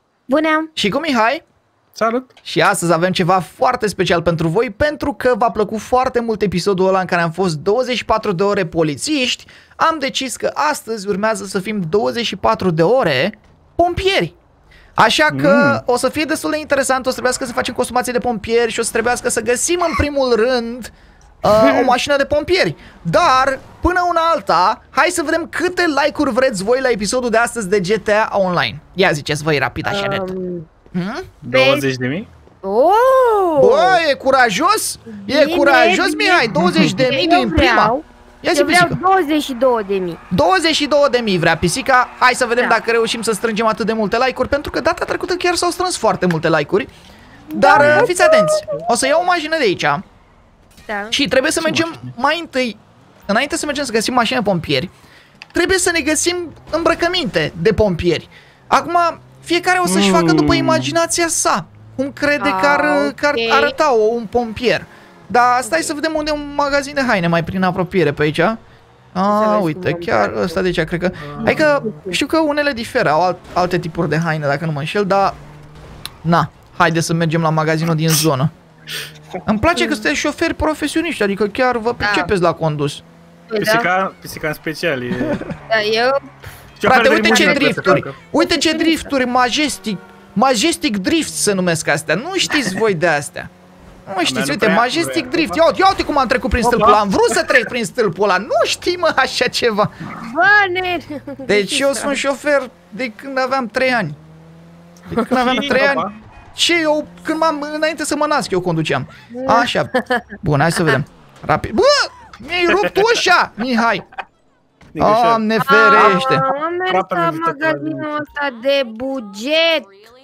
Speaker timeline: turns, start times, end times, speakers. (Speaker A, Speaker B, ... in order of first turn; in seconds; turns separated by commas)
Speaker A: 0.3-0.7, Speaker B: 0.8-1.4, Speaker C: 1.9-2.3, Speaker B: 2.5-14.4, Speaker B: 15.0-30.3, Speaker C: 15.3-15.8, Speaker A: 21.5-22.0, Speaker A: 29.9-30.7, Speaker B: 30.9-31.3, Speaker C: 31.4-32.3, Speaker A: 31.5-31.9, Speaker A: 32.6-34.0, Speaker B: 33.6-39.0, Speaker A: 35.1-40.2, Speaker C: 36.5-37.0, Speaker B: 40.3-46.9, Speaker A: 47.5-48.6, Speaker B: 47.5-50.0, Speaker C: 47.8-48.9, Speaker A: 50.9-51.2, Speaker B: 51.1-54.9, Speaker C: 51.6-52.1, Speaker B: 55.5-68.6, Speaker C: 59.9-61.0, Speaker A: 62.4-63.8, Speaker A: 65.7-65.9, Speaker B: 69.1-75.4, Speaker A: 69.3-70.6, Speaker C: 71.2-71.8, Speaker A: 71.3-72.2, Speaker B: 76.2-78.5, Speaker B: 79.5-83.0, Speaker A: 79.8-80.1, Speaker A: 82.0-82.3, Speaker A: 83.5-83.9, Speaker C: 83.6-85.5, Speaker A: 85.7-86.3, Speaker C: 86.8-88.2, Speaker B: 86.9-93.5, Speaker A: 87.2-89.1, Speaker B: 94.1-100.0, Speaker C: 94.2-95.6, Speaker C: 96.6-97.7, Speaker A: 100.2-102.2, Speaker B: 101.5-104.2, Speaker B: 105.1-109.9, Speaker A: 105.2-105.4, Speaker C: 105.2-106.1, Speaker A: 109.3-110.3, Speaker B: 110.4-114.0, Speaker C: 112.7-113.2, Speaker C: 115.0-118.1, Speaker B: 115.0-116.5, Speaker A: 115.6-120.1